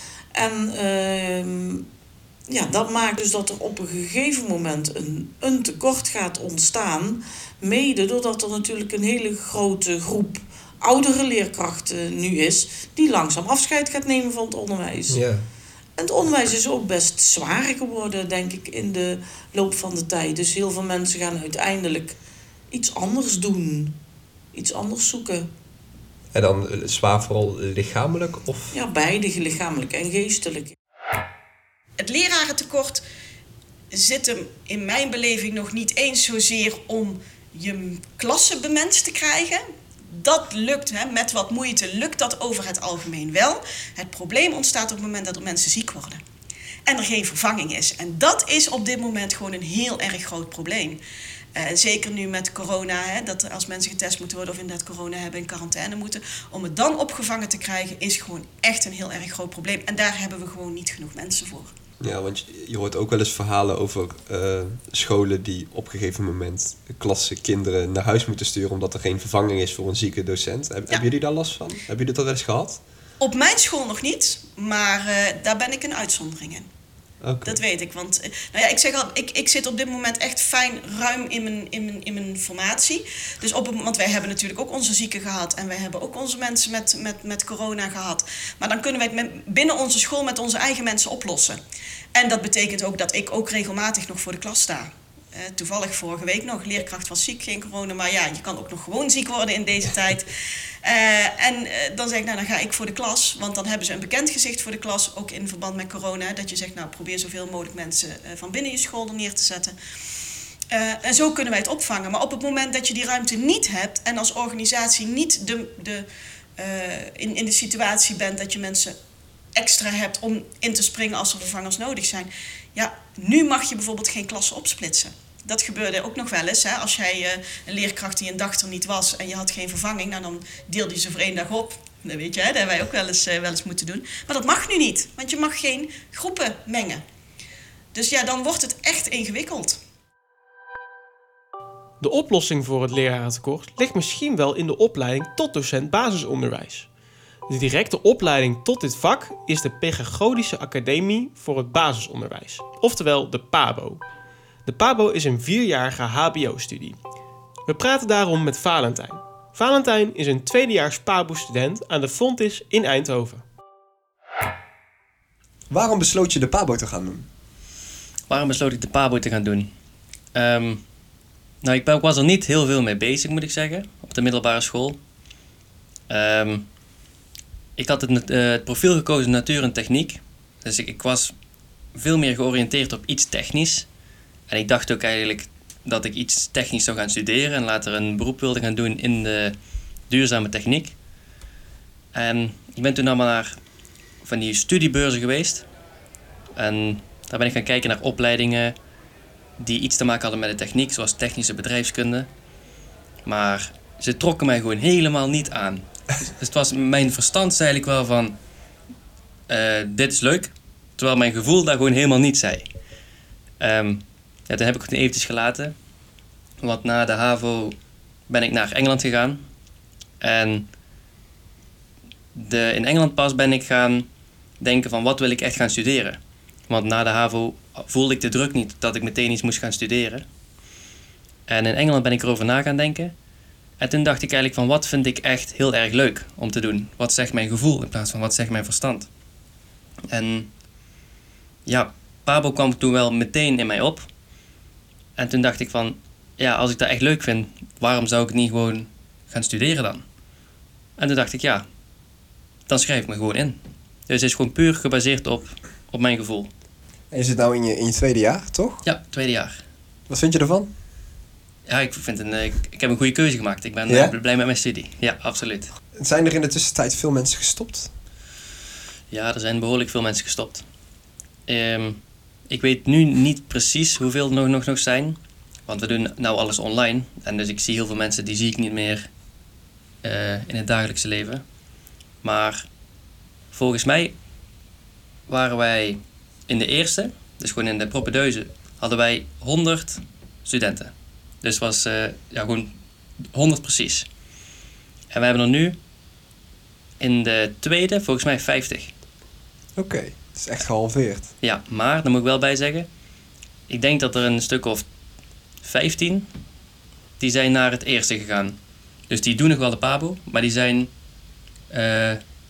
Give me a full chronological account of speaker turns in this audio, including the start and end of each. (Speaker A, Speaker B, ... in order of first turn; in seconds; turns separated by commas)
Speaker A: 0.3-1.8, Speaker A: 2.5-15.2, Speaker B: 15.1-15.4, Speaker A: 16.0-22.2, Speaker A: 22.7-24.0, Speaker A: 24.5-25.5, Speaker B: 26.3-28.7, Speaker A: 28.7-30.7, Speaker C: 32.0-33.0, Speaker C: 33.9-46.2, Speaker C: 46.9-51.0, Speaker C: 51.5-61.7, Speaker B: 62.0-72.8, Speaker C: 73.2-76.7, Speaker B: 77.2-77.6, Speaker C: 77.4-91.6, Speaker C: 92.1-100.3, Speaker C: 100.8-109.7, Speaker C: 110.7-116.0, Speaker C: 116.6-118.9, Speaker C: 119.5-137.0, Speaker C: 137.9-139.8, Speaker D: 142.0-146.9, Speaker D: 147.5-154.0, Speaker D: 154.6-157.0, Speaker D: 157.7-163.4, Speaker B: 165.7-167.3, Speaker E: 168.3-169.7, Speaker E: 170.3-170.8, Speaker E: 171.6-175.0, Speaker E: 176.1-176.6, Speaker E: 177.8-181.3, Speaker E: 181.9-183.8, Speaker E: 184.5-189.6, Speaker E: 190.1-190.9, Speaker E: 192.1-193.5, Speaker E: 194.2-195.6, Speaker E: 196.6-198.7, Speaker E: 199.6-202.3, Speaker E: 203.2-208.4, Speaker E: 209.5-212.7, Speaker E: 213.6-215.7, Speaker E: 216.6-217.7, Speaker E: 218.3-219.4, Speaker E: 220.2-220.7, Speaker E: 222.3-224.1, Speaker E: 224.6-230.2, Speaker E: 231.5-233.1, Speaker E: 233.8-239.1, Speaker E: 240.1-240.5, Speaker E: 241.7-244.1, Speaker E: 245.2-250.0, Speaker E: 251.0-251.6, Speaker E: 252.7-253.6, Speaker E: 254.1-256.5, Speaker B: 257.1-258.8, Speaker E: 258.8-259.6, Speaker B: 260.1-260.7, Speaker E: 261.6-265.7, Speaker B: 263.9-264.1, Speaker B: 265.9-267.9, Speaker E: 269.1-270.6, Speaker E: 271.5-279.1, Speaker E: 280.0-281.4, Speaker E: 282.2-282.6, Speaker E: 283.5-284.1, Speaker E: 285.3-292.7, Speaker E: 293.3-294.1, Speaker E: 295.1-295.8, Speaker E: 297.0-298.9, Speaker B: 299.8-301.3, Speaker E: 301.4-302.9, Speaker E: 303.7-304.8, Speaker E: 305.6-306.2, Speaker E: 307.2-308.6, Speaker E: 309.1-310.9, Speaker E: 311.7-312.2